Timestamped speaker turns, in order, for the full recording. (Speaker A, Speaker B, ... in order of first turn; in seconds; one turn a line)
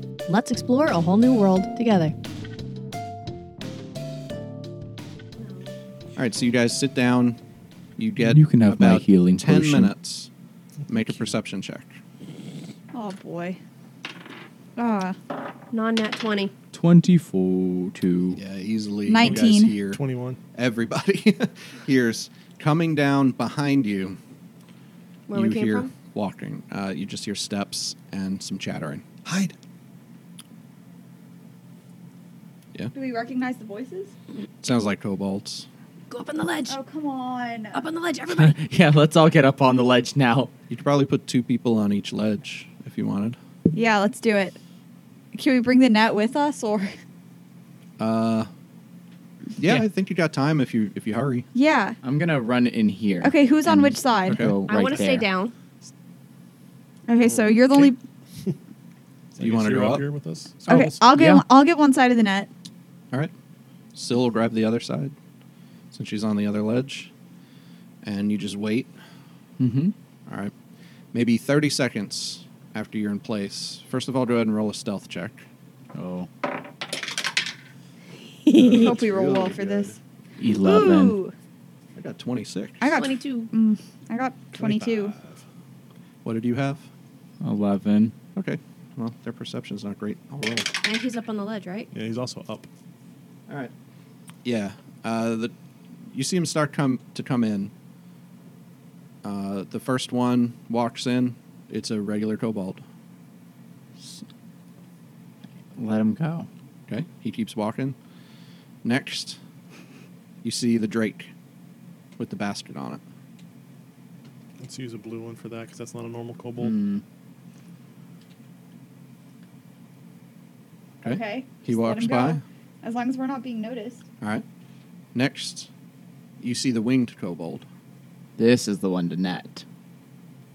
Speaker A: 0.3-2.1
Speaker A: 5.4-5.7
Speaker B: 6.2-7.4
Speaker B: 8.0-10.3
Speaker C: 8.2-9.9
Speaker B: 10.9-12.0
Speaker D: 12.9-13.6
Speaker D: 14.8-15.2
Speaker A: 15.7-16.5
Speaker C: 16.7-18.4
Speaker B: 18.4-20.0
Speaker D: 19.1-19.8
Speaker E: 19.2-20.4
Speaker B: 20.6-24.2
Speaker A: 25.3-25.9
Speaker B: 25.3-29.1
Speaker E: 29.3-29.5
Speaker D: 32.9-34.1
Speaker B: 34.6-35.7
Speaker A: 36.1-36.8
Speaker D: 36.7-37.8
Speaker A: 37.7-38.6
Speaker C: 38.3-40.5
Speaker B: 40.7-43.4
Speaker D: 43.7-44.6
Speaker D: 45.3-47.0
Speaker B: 48.0-48.5
Speaker B: 49.6-51.5
Speaker D: 51.5-52.0
Speaker C: 52.0-55.3
Speaker D: 53.2-54.5
Speaker B: 54.3-54.6
Speaker A: 54.7-55.5
Speaker D: 57.1-58.0
Speaker E: 57.3-58.5
Speaker E: 59.4-61.0
Speaker B: 59.4-60.1
Speaker C: 60.7-61.4
Speaker D: 60.7-62.5
Speaker B: 64.0-65.2
Speaker B: 65.9-67.1
Speaker B: 68.0-68.9
Speaker C: 69.6-69.9
Speaker B: 70.3-70.5
Speaker B: 71.1-75.5
Speaker C: 75.9-76.3
Speaker A: 78.5-79.0
Speaker B: 78.5-80.0
Speaker D: 78.7-81.3
Speaker C: 80.4-81.2
Speaker B: 82.0-82.9
Speaker D: 82.8-85.1
Speaker A: 82.9-83.5
Speaker E: 84.5-85.4
Speaker B: 86.2-86.9
Speaker C: 87.4-88.1
Speaker B: 88.3-90.7
Speaker A: 90.8-91.9
Speaker E: 91.9-92.7
Speaker B: 94.4-95.5
Speaker B: 96.1-97.7
Speaker B: 99.2-102.8
Speaker C: 105.8-106.5
Speaker B: 106.9-108.0
Speaker B: 108.8-109.4
Speaker B: 110.4-111.3
Speaker B: 112.2-113.0
Speaker E: 114.6-116.8
Speaker C: 116.6-117.0
Speaker B: 121.0-122.4
Speaker D: 121.0-124.0
Speaker B: 125.1-125.7
Speaker B: 126.4-127.7
Speaker C: 128.4-129.6